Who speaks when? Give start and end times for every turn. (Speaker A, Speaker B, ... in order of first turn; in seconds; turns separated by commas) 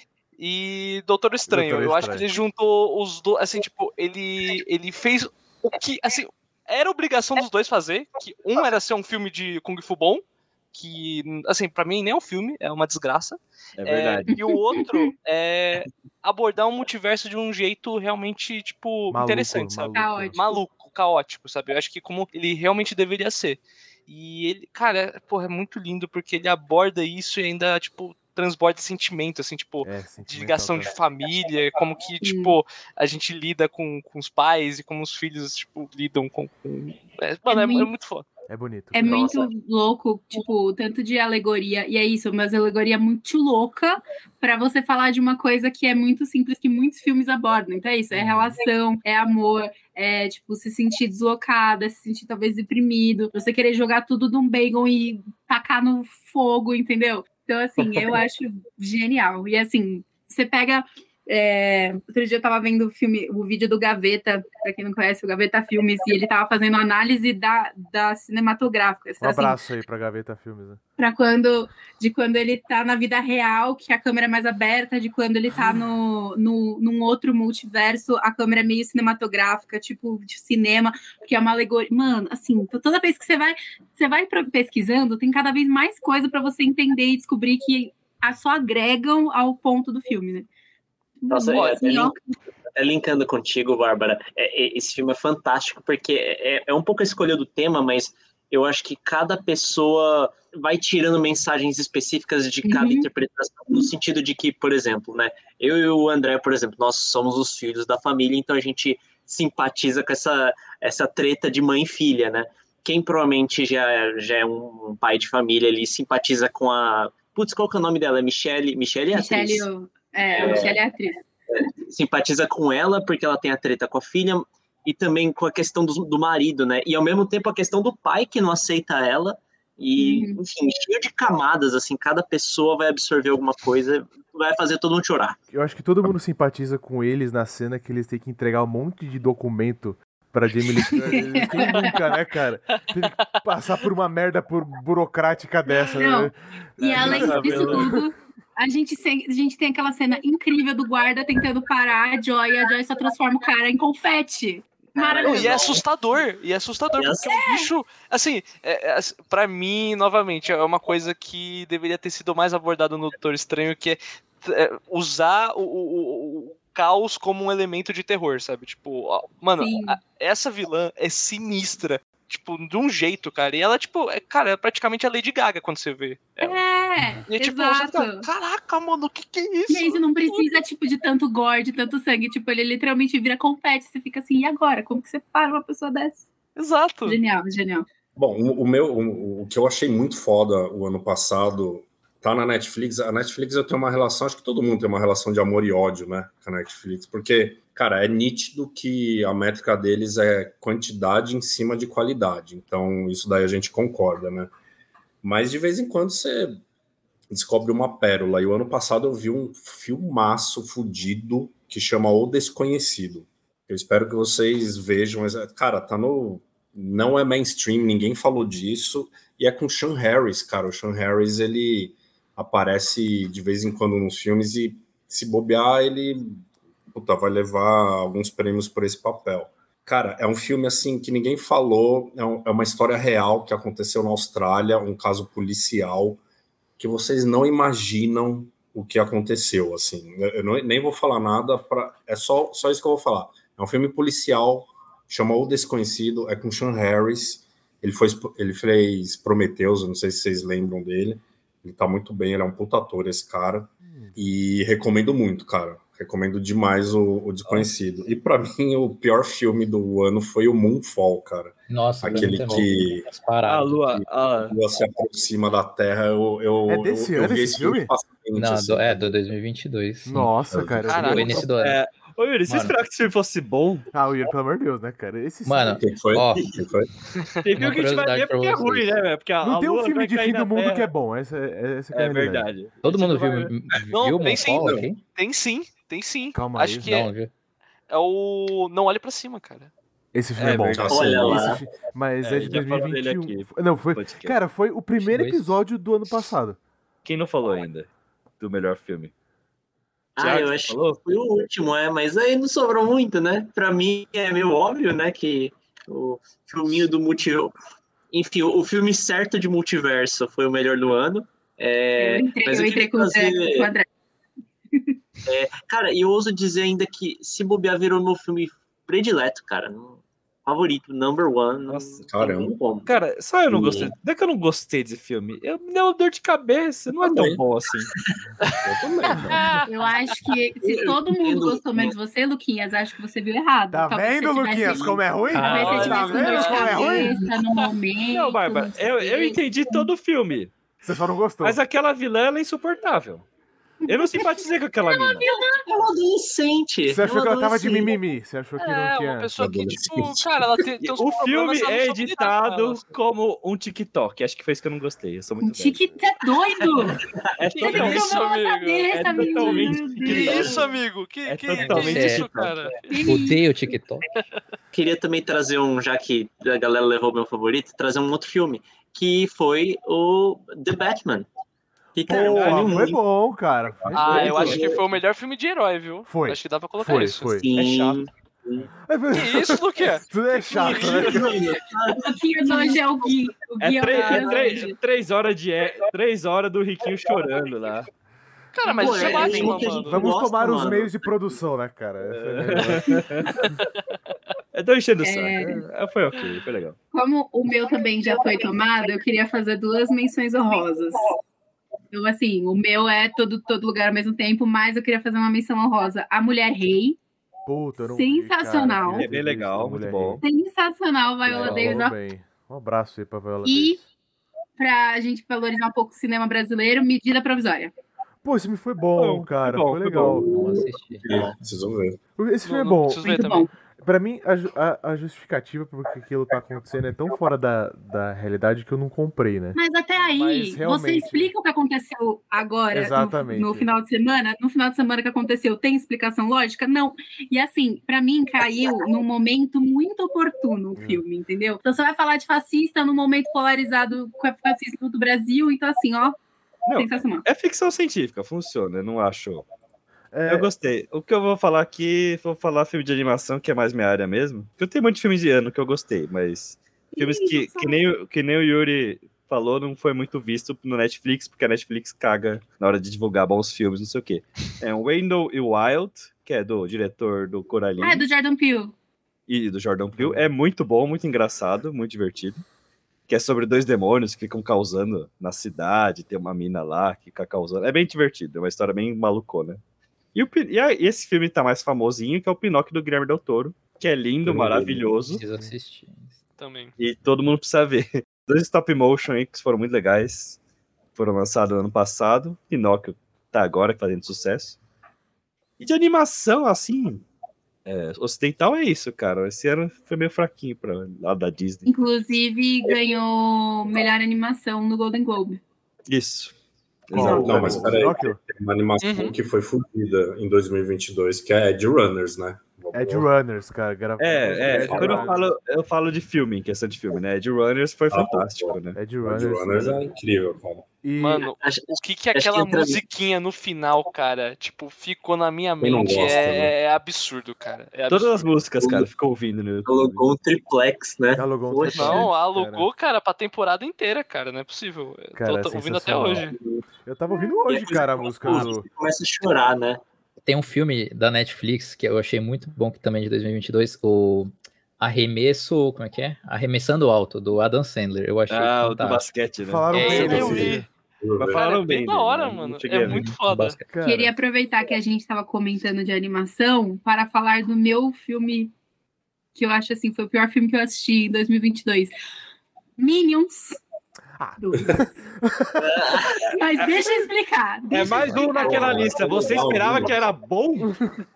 Speaker A: 0.4-38.3, Speaker B: 1.5-2.3, Speaker C: 13.8-14.3, Speaker D: 14.3-15.1, Speaker B: 19.1-20.4, Speaker D: 19.9-20.6, Speaker B: 29.8-30.9, Speaker D: 32.2-32.6, Speaker D: 37.5-37.9, Speaker B: 38.5-39.3, Speaker D: 38.9-69.6, Speaker E: 39.0-39.5, Speaker B: 48.1-48.6, Speaker B: 69.2-70.8, Speaker D: 71.0-90.5, Speaker D: 91.2-92.2, Speaker E: 91.3-92.2, Speaker E: 92.7-119.7, Speaker D: 102.6-103.1, Speaker D: 119.1-121.2, Speaker E: 120.3-120.8, Speaker E: 121.5-135.4, Speaker D: 130.0-130.4, Speaker B: 135.5-147.9, Speaker D: 141.1-142.0, Speaker D: 145.7-155.8, Speaker E: 146.8-147.7, Speaker C: 146.9-147.9, Speaker E: 154.9-155.8, Speaker A: 155.2-176.6, Speaker E: 157.0-157.3, Speaker D: 157.3-157.7, Speaker D: 169.6-170.0, Speaker D: 176.4-178.3, Speaker A: 177.3-180.5, Speaker D: 179.7-186.3, Speaker A: 186.6-187.2, Speaker D: 187.1-187.8, Speaker F: 188.2-204.5, Speaker F: 205.2-206.6, Speaker F: 207.3-236.2, Speaker F: 236.8-263.1, Speaker B: 253.8-254.2, Speaker G: 261.7-264.0, Speaker C: 263.5-264.6, Speaker F: 264.3-269.2, Speaker B: 266.7-267.9, Speaker G: 268.4-270.4, Speaker B: 270.1-271.5, Speaker F: 270.5-271.0, Speaker A: 270.9-271.4, Speaker G: 270.9-271.8, Speaker C: 271.5-273.9, Speaker G: 272.5-272.8, Speaker B: 273.9-275.8, Speaker G: 275.4-276.6, Speaker F: 275.8-276.9, Speaker C: 277.4-280.9, Speaker G: 277.6-279.0, Speaker B: 279.4-282.5, Speaker C: 281.9-283.5, Speaker G: 282.8-285.0, Speaker A: 283.9-287.1, Speaker B: 286.3-286.9, Speaker G: 286.8-287.3, Speaker A: 287.9-289.7, Speaker B: 290.1-296.6, Speaker C: 290.4-291.2, Speaker F: 290.7-291.5, Speaker E: 290.9-291.6, Speaker C: 292.2-294.4, Speaker G: 295.0-295.5, Speaker C: 297.1-297.9, Speaker C: 298.4-299.1, Speaker E: 300.2-307.6, Speaker C: 300.2-301.1, Speaker E: 308.1-313.7, Speaker D: 312.0-313.9, Speaker E: 315.3-323.0, Speaker C: 321.7-322.1, Speaker F: 322.1-322.6, Speaker C: 322.9-327.9, Speaker F: 323.5-323.9, Speaker F: 327.1-327.4, Speaker F: 328.6-329.5, Speaker A: 329.3-329.7, Speaker D: 329.6-339.9, Speaker E: 330.6-331.9, Speaker B: 333.7-337.2, Speaker E: 334.7-334.9, Speaker G: 335.3-336.2, Speaker A: 335.5-337.7, Speaker C: 338.1-340.6, Speaker B: 340.8-341.6, Speaker C: 341.4-343.3, Speaker D: 343.8-345.6, Speaker C: 343.9-345.3, Speaker E: 345.2-347.9, Speaker B: 346.9-349.3, Speaker A: 348.6-352.9, Speaker F: 349.4-350.4, Speaker C: 350.8-356.0, Speaker D: 355.4-357.0, Speaker E: 357.0-357.8, Speaker C: 357.4-358.1, Speaker A: 357.6-362.9, Speaker D: 357.6-360.5, Speaker C: 358.9-360.7, Speaker E: 360.0-360.7, Speaker C: 361.2-362.8, Speaker G: 361.6-362.3, Speaker D: 362.9-363.4, Speaker G: 363.0-364.1, Speaker E: 364.7-371.3, Speaker E: 371.9-373.0, Speaker B: 372.1-374.6, Speaker C: 372.1-372.9, Speaker C: 373.9-374.6, Speaker A: 373.9-377.4, Speaker E: 374.0-374.8, Speaker B: 376.1-378.0, Speaker E: 377.4-378.7, Speaker B: 378.7-381.3, Speaker A: 379.1-381.3, Speaker E: 380.7-383.1, Speaker D: 381.9-384.8, Speaker C: 383.6-387.9, Speaker E: 384.1-384.4, Speaker A: 388.6-390.1, Speaker D: 388.6-389.7, Speaker E: 388.8-390.9, Speaker C: 389.1-389.8, Speaker B: 389.8-393.2, Speaker C: 390.6-390.9, Speaker C: 392.1-393.4, Speaker C: 394.5-396.8, Speaker D: 395.0-395.6, Speaker D: 396.9-401.1, Speaker D: 401.9-407.0, Speaker B: 407.5-410.2, Speaker D: 407.9-409.1, Speaker C: 408.9-410.2, Speaker D: 410.2-412.0, Speaker B: 411.2-413.9, Speaker D: 413.4-413.8, Speaker D: 414.6-417.7, Speaker B: 418.2-420.3, Speaker C: 419.0-420.2, Speaker G: 420.2-421.3, Speaker F: 420.3-422.0, Speaker E: 421.1-421.3, Speaker B: 422.2-423.1, Speaker A: 422.4-423.5, Speaker D: 423.0-423.5, Speaker B: 423.8-429.6, Speaker D: 429.6-446.2, Speaker A: 430.0-430.6, Speaker B: 430.4-431.3, Speaker B: 432.7-433.7, Speaker B: 440.8-441.0, Speaker C: 446.7-449.5, Speaker D: 446.8-447.2, Speaker B: 450.1-450.5, Speaker C: 450.3-468.1, Speaker D: 456.9-457.8, Speaker D: 467.8-468.7, Speaker C: 469.3-472.4, Speaker B: 470.0-470.3, Speaker C: 473.1-479.6, Speaker C: 480.1-485.2, Speaker B: 484.3-484.8, Speaker G: 484.3-486.2, Speaker A: 486.4-486.7, Speaker C: 486.8-490.4, Speaker C: 490.9-494.6, Speaker C: 495.6-497.1, Speaker C: 497.6-501.7, Speaker D: 501.7-505.4, Speaker C: 505.9-506.4, Speaker C: 506.9-507.9, Speaker B: 506.9-508.2, Speaker F: 506.9-513.1, Speaker A: 508.8-509.2, Speaker B: 512.7-515.3, Speaker C: 514.0-518.8, Speaker F: 514.4-515.3, Speaker F: 517.9-520.7, Speaker B: 518.7-519.9, Speaker B: 520.8-521.3, Speaker A: 521.0-528.3, Speaker E: 521.4-522.8, Speaker F: 525.6-526.5, Speaker C: 527.9-530.0, Speaker E: 528.6-528.9, Speaker E: 529.7-532.1, Speaker B: 531.2-532.7, Speaker A: 531.7-536.4, Speaker B: 535.2-536.3, Speaker E: 536.3-536.6, Speaker B: 536.9-538.7, Speaker D: 537.1-537.4, Speaker E: 537.5-539.8, Speaker G: 540.3-549.2, Speaker C: 548.3-550.5, Speaker B: 549.4-550.7, Speaker G: 549.7-550.1, Speaker A: 549.7-550.6, Speaker F: 549.9-551.4, Speaker C: 551.2-553.1, Speaker A: 551.3-553.6, Speaker G: 552.8-553.7, Speaker B: 553.7-554.1, Speaker D: 553.8-558.5, Speaker D: 559.4-561.9, Speaker D: 562.8-563.6, Speaker B: 564.2-565.7, Speaker D: 564.4-564.9, Speaker E: 565.6-566.3, Speaker D: 566.2-568.9, Speaker C: 566.6-567.0, Speaker C: 567.7-570.8, Speaker G: 567.9-568.2, Speaker F: 568.2-570.1